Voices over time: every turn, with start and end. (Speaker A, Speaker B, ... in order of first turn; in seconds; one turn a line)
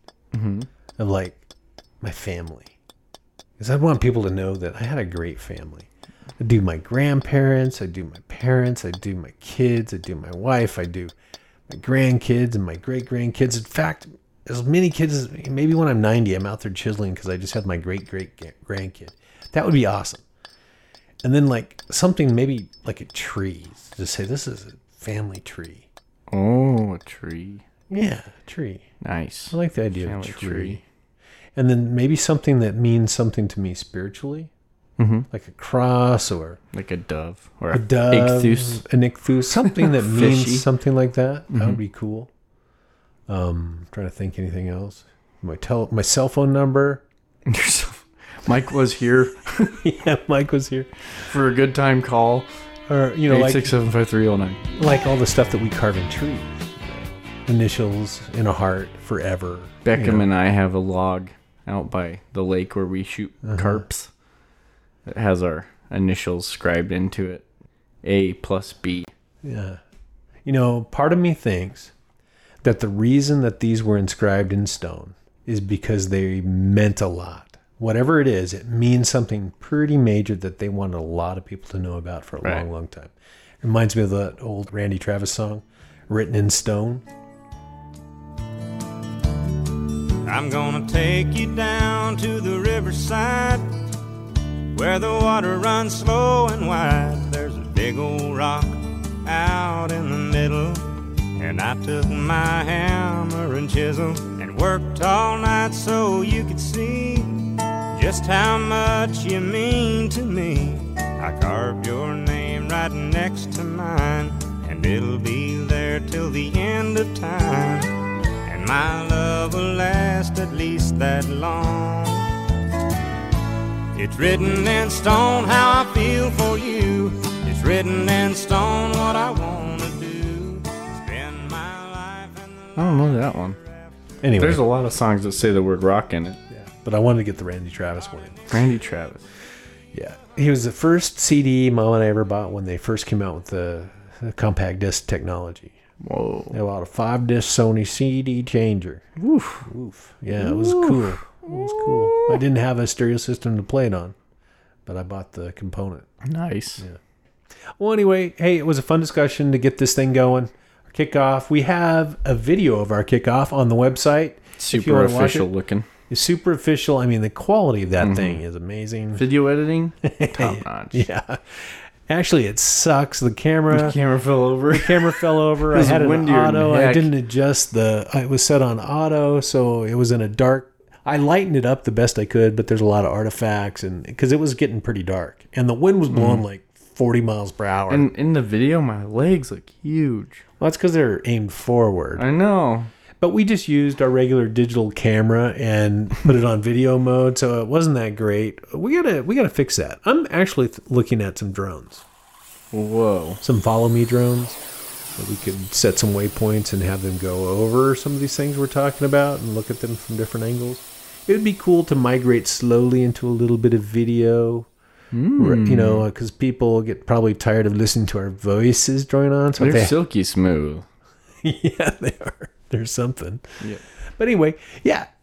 Speaker A: 0.3-0.7
Speaker B: 1.0-1.4
Speaker B: 2.0-2.7
Speaker B: 3.6-5.9
Speaker B: 6.4-11.1
Speaker B: 11.7-20.2
Speaker B: 21.2-25.9
Speaker A: 26.3-27.6
Speaker B: 27.9-28.9
Speaker A: 29.0-30.8
Speaker B: 29.5-30.8
Speaker B: 31.6-34.5
Speaker A: 35.0-35.3
Speaker B: 35.3-36.6
Speaker A: 36.7-38.8
Speaker B: 37.7-42.3
Speaker A: 39.6-40.7
Speaker A: 41.5-41.8
Speaker B: 43.3-47.0
Speaker A: 47.5-49.8
Speaker B: 49.7-50.9
Speaker A: 51.2-52.5
Speaker B: 52.9-53.7
Speaker A: 53.3-54.6
Speaker B: 54.8-60.3
Speaker A: 59.9-64.1
Speaker B: 63.5-63.9
Speaker A: 65.1-67.5
Speaker A: 68.0-69.1
Speaker B: 69.4-69.8
Speaker B: 70.5-71.9
Speaker B: 72.6-87.0
Speaker C: 90.2-93.8
Speaker C: 94.7-122.4
Speaker C: 123.9-133.9
Speaker A: 132.8-133.6
Speaker B: 134.2-134.6
Speaker A: 134.4-136.4
Speaker B: 136.5-138.6
Speaker A: 138.5-139.3
Speaker B: 139.9-145.8
Speaker A: 146.0-146.6
Speaker B: 146.5-149.1
Speaker A: 149.2-149.7
Speaker B: 149.6-154.2
Speaker A: 150.3-152.4
Speaker B: 154.9-156.1
Speaker A: 156.2-156.8
Speaker B: 157.8-165.5
Speaker A: 164.6-165.9
Speaker B: 166.1-169.2
Speaker A: 168.0-168.4
Speaker A: 169.2-171.1
Speaker B: 170.0-174.0
Speaker A: 173.7-177.1
Speaker B: 174.7-188.1
Speaker A: 186.1-186.4
Speaker A: 187.9-190.4
Speaker B: 190.6-192.2
Speaker A: 192.2-192.9
Speaker B: 193.2-202.0
Speaker A: 202.7-203.4
Speaker B: 203.4-204.6
Speaker B: 205.2-214.7
Speaker A: 215.1-216.1
Speaker B: 215.4-220.0
Speaker A: 219.6-220.9
Speaker B: 221.4-225.1